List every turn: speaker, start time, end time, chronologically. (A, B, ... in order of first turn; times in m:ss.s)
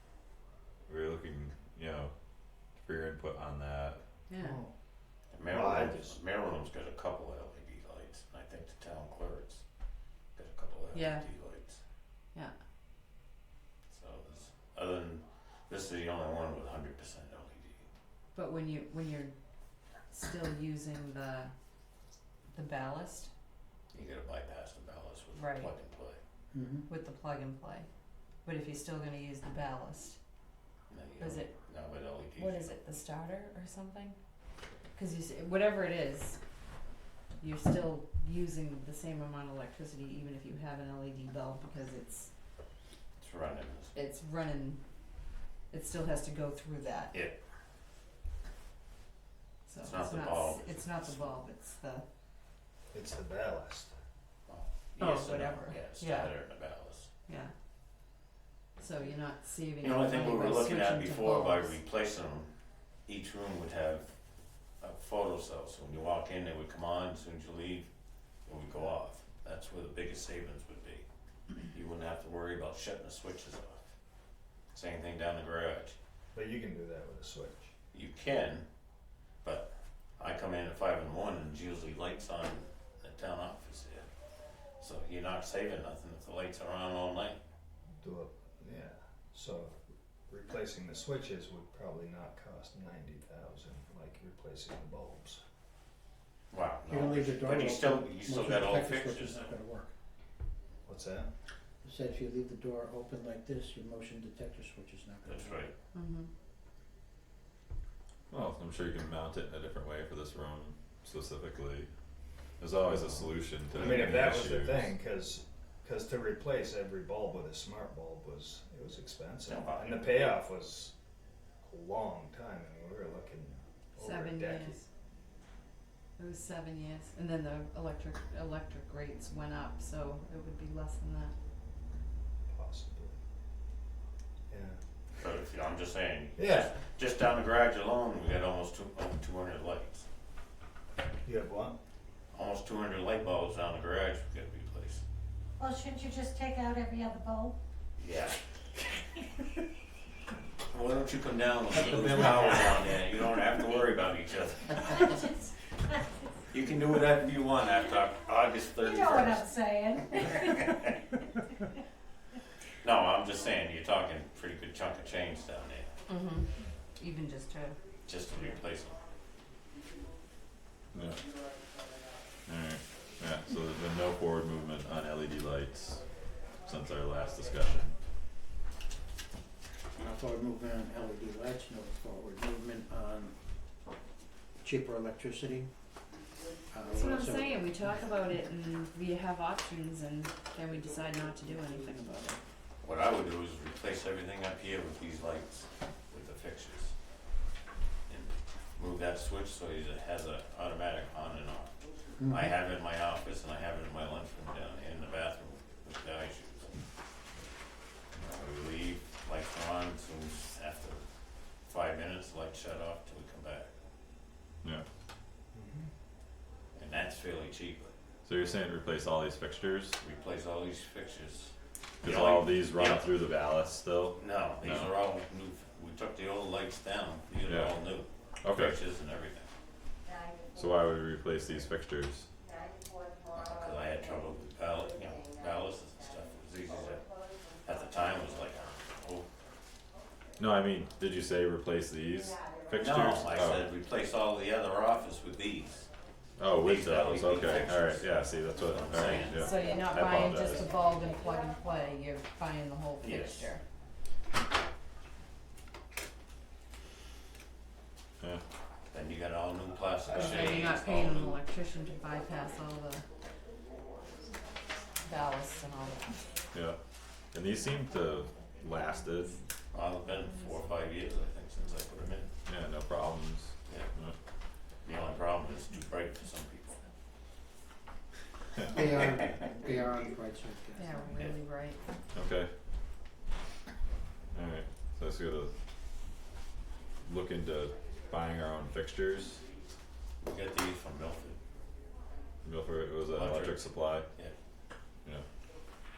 0:00.9-0:02.1 A
0:02.7-0:04.0 A
0:04.3-0:04.6 B
0:04.4-0:04.7 C
0:05.3-0:09.6 D
0:05.5-0:06.1 C
0:10.4-0:11.8 D
0:10.9-0:11.2 B
0:13.9-0:17.9 D
0:18.3-0:19.3 B
0:20.1-0:21.5 B
0:22.5-0:23.3 B
0:23.9-0:26.2 D
0:25.3-0:25.7 B
0:26.5-0:26.8 E
0:26.9-0:27.9 B
0:28.4-0:30.2 B
0:30.9-0:32.7 D
0:31.2-0:31.5 B
0:32.3-0:34.2 B
0:34.9-0:36.4 B
0:37.4-0:42.3 B
0:43.2-0:43.9 D
0:43.9-0:44.8 B
0:45.7-0:47.1 B
0:49.6-0:52.0 B
0:49.8-0:51.3 D
0:52.9-0:53.9 C
0:54.5-0:57.1 D
0:55.0-0:56.3 B
0:58.8-1:01.7 B
0:59.8-1:02.5 D
1:03.1-1:04.1 D
1:04.8-1:07.8 D
1:08.5-1:11.0 D
1:11.7-1:13.9 D
1:14.7-1:16.0 D
1:16.3-1:17.7 C
1:17.9-1:18.6 D
1:19.4-1:24.1 D
1:24.8-1:27.4 D
1:28.0-1:35.4 C
1:36.5-1:39.6 D
1:36.8-1:39.9 E
1:40.8-1:41.3 C
1:41.8-1:45.7 E
1:45.3-1:45.7 D
1:45.9-1:46.3 B
1:48.3-1:51.9 A
1:52.6-1:54.9 A
1:52.8-2:00.9 C
1:59.4-2:00.4 D
2:01.6-2:04.8 C
2:04.0-2:04.8 B
2:06.2-2:11.3 B
2:12.5-2:13.2 C
2:14.5-2:14.8 C
2:15.2-2:20.1 D
2:16.4-2:16.7 C
2:21.2-2:21.8 C
2:22.3-2:25.0 D
2:25.6-2:27.5 F
2:28.0-2:28.4 D
2:30.7-2:35.3 D
2:35.0-2:35.5 F
2:36.5-2:39.5 D
2:38.8-2:40.8 F
2:42.8-2:45.9 D
2:46.1-2:47.8 B
2:48.0-2:49.0 D
2:50.9-2:51.2 A
2:52.5-2:57.9 A
3:00.0-3:03.3 E
3:04.6-3:05.7 E
3:06.7-3:08.0 E
3:06.9-3:12.4 B
3:12.8-3:16.9 D
3:18.1-3:21.7 D
3:22.2-3:22.5 E
3:22.2-3:26.8 D
3:28.2-3:31.0 D
3:31.7-3:33.7 D
3:35.5-3:35.9 C
3:36.7-3:37.9 D
3:38.2-3:40.0 A
3:40.0-3:43.1 D
3:42.0-3:44.9 A
3:44.1-3:49.5 D
3:47.4-3:47.8 A
3:48.4-3:48.8 A
3:50.5-3:52.3 A
3:53.3-3:57.1 D
3:57.6-3:59.3 D
4:00.4-4:03.6 A
4:02.7-4:05.9 D
4:06.4-4:10.7 A
4:06.6-4:08.1 D
4:08.7-4:09.5 D
4:09.0-4:13.6 B
4:13.0-4:13.5 D
4:18.9-4:21.4 D
4:20.1-4:23.0 B
4:25.0-4:26.3 B
4:27.3-4:29.4 A
4:29.7-4:32.3 D
4:32.4-4:34.1 A
4:34.8-4:36.8 D
4:38.7-4:41.2 E
4:40.8-4:41.8 B
4:42.1-4:42.5 A
4:44.3-4:45.5 A
4:47.0-4:49.4 A
4:50.2-4:51.4 D
4:52.4-4:54.1 A
4:53.1-4:54.3 D